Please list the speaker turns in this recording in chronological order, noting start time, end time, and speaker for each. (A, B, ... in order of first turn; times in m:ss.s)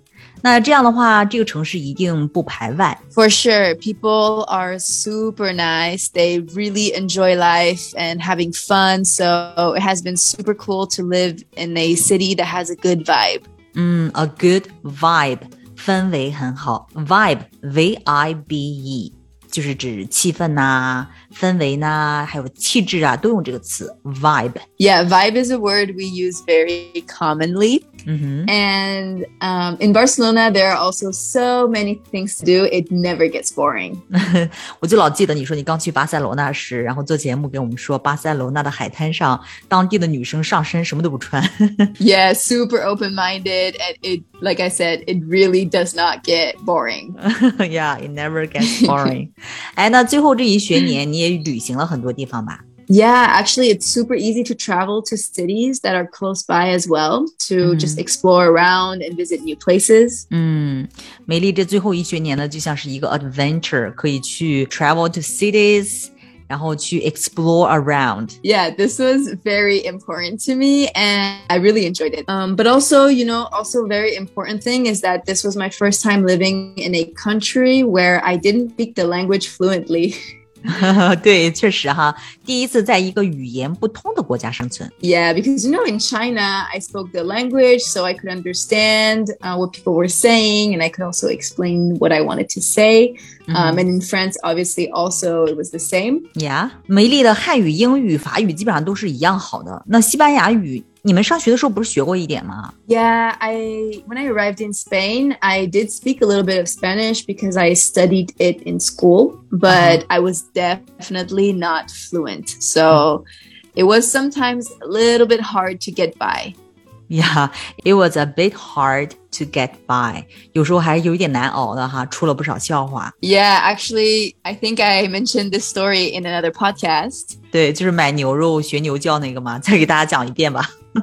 0:00.4-0:03.0 A
0:03.1-0:13.5 B
0:13.7-0:24.6 A
0:24.8-0:27.9 B
0:28.0-0:28.5 A
0:28.5-0:34.0 B
0:34.1-0:41.9 A
0:42.0-0:47.2 B
0:47.2-0:52.6 A
0:48.7-0:49.1 B
0:52.9-1:00.2 B
0:57.6-0:58.0 A
1:00.3-1:08.4 A
1:08.4-1:20.2 B
1:20.7-1:24.9 A
1:25.0-1:36.2 B
1:33.5-1:33.8 A
1:36.4-1:42.7 A
1:42.8-1:56.5 B
1:49.7-1:50.0 A
1:57.1-2:03.1 A
2:03.2-2:07.4 B
2:07.5-2:10.7 A